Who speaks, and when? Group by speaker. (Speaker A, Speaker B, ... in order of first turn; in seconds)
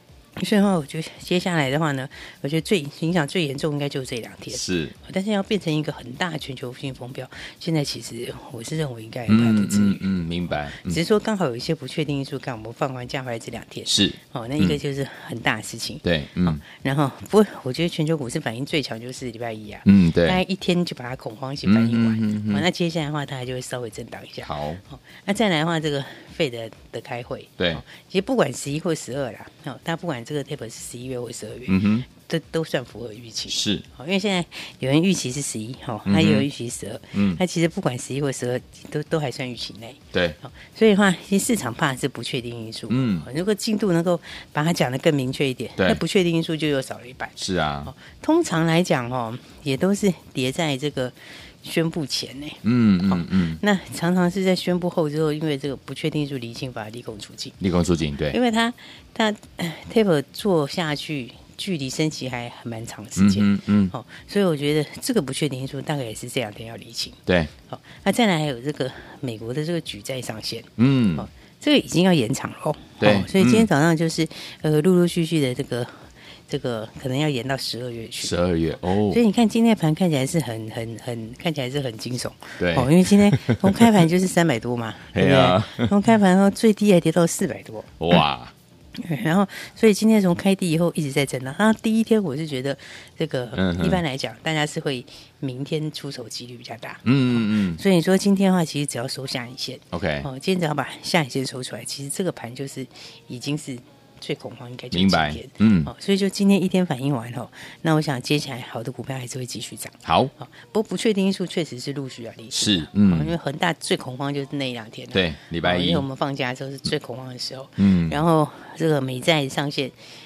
Speaker A: 0.4-57.6, 58.3-78.4, 79.0-87.9, 89.0-119.9
Speaker B: 4.5-4.9, 9.3-11.0, 13.9-14.8, 16.0-16.6, 19.8-20.4, 21.6-22.6, 24.4-24.8, 31.7-32.0, 33.5-33.8, 36.0-36.5, 37.1-37.4, 42.9-43.2, 47.4-47.9, 52.6-53.6, 57.6-58.4, 63.1-63.9, 70.8-71.2, 73.0-73.7, 78.2-79.2, 82.6-83.8, 85.1-85.9, 88.0-88.5, 93.5-94.0, 97.0-97.8, 99.9-100.3, 104.9-105.9, 110.0-110.3, 112.5-113.3, 115.1-116.0, 117.8-118.2